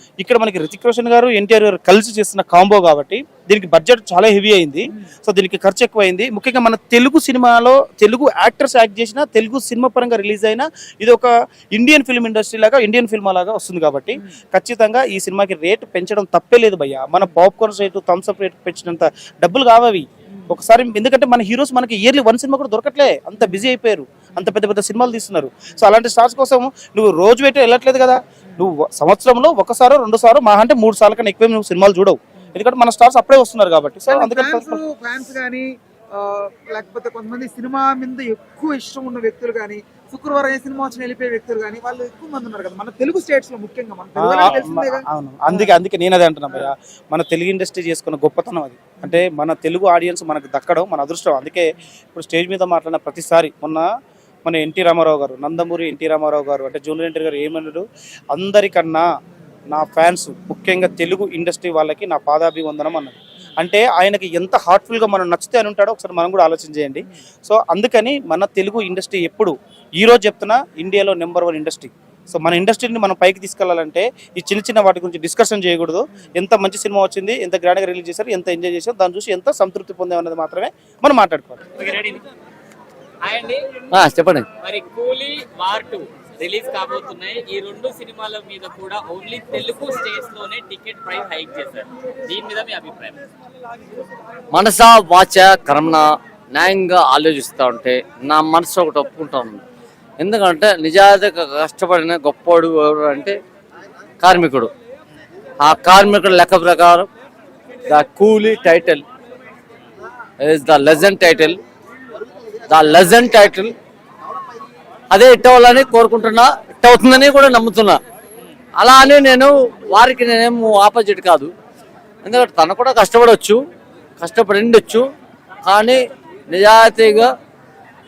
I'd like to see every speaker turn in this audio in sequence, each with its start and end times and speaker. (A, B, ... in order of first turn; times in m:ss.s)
0:00.2-0:34.8 A
0:34.1-0:45.8 B
0:44.2-0:53.8 A
0:49.0-0:49.2 B
0:54.4-0:59.1 A
0:59.7-1:21.6 A
1:21.8-1:22.2 C
1:23.2-1:23.7 C
1:23.9-1:24.5 D
1:24.6-1:33.2 C
1:34.5-1:39.6 D
1:40.2-1:43.4 D
1:44.2-1:44.7 D
1:45.6-1:47.1 D
1:47.9-1:49.0 D
1:50.4-1:51.6 D
1:52.7-1:53.7 D
1:55.1-1:58.0 D
1:58.8-2:01.5 D
2:02.2-2:03.6 D
2:04.2-2:05.1 D
2:05.6-2:07.3 D